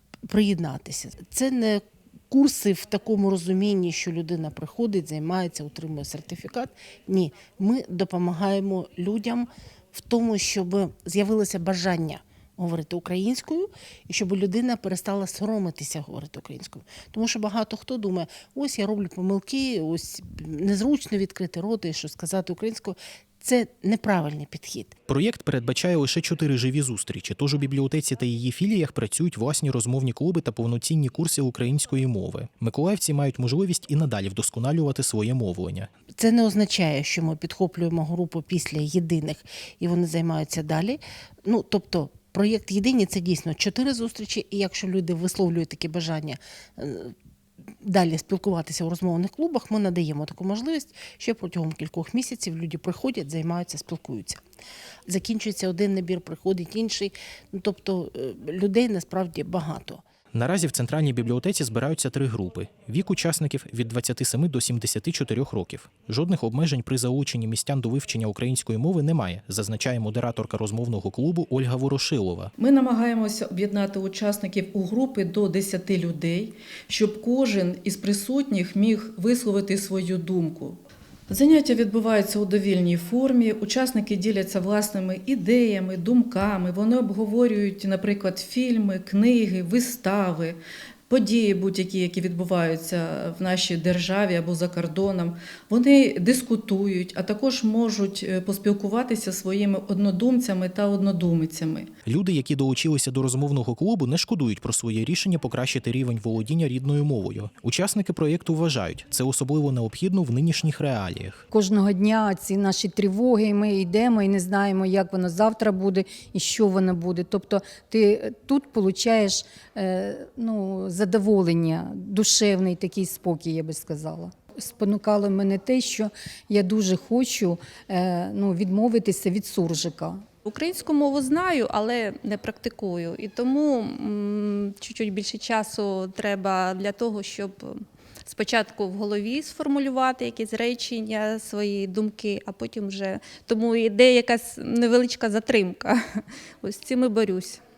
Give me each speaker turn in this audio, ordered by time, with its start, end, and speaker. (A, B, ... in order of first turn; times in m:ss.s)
0:00.3-0:24.9 A
0:25.1-0:35.9 B
0:36.1-0:47.1 A
0:47.8-0:54.4 A
0:55.1-1:00.0 A
1:00.3-1:12.5 B
1:12.6-1:20.8 C
1:21.3-1:30.6 C
1:31.1-1:41.9 C
1:42.0-1:51.4 B
1:51.5-2:10.2 D
2:10.4-2:27.6 E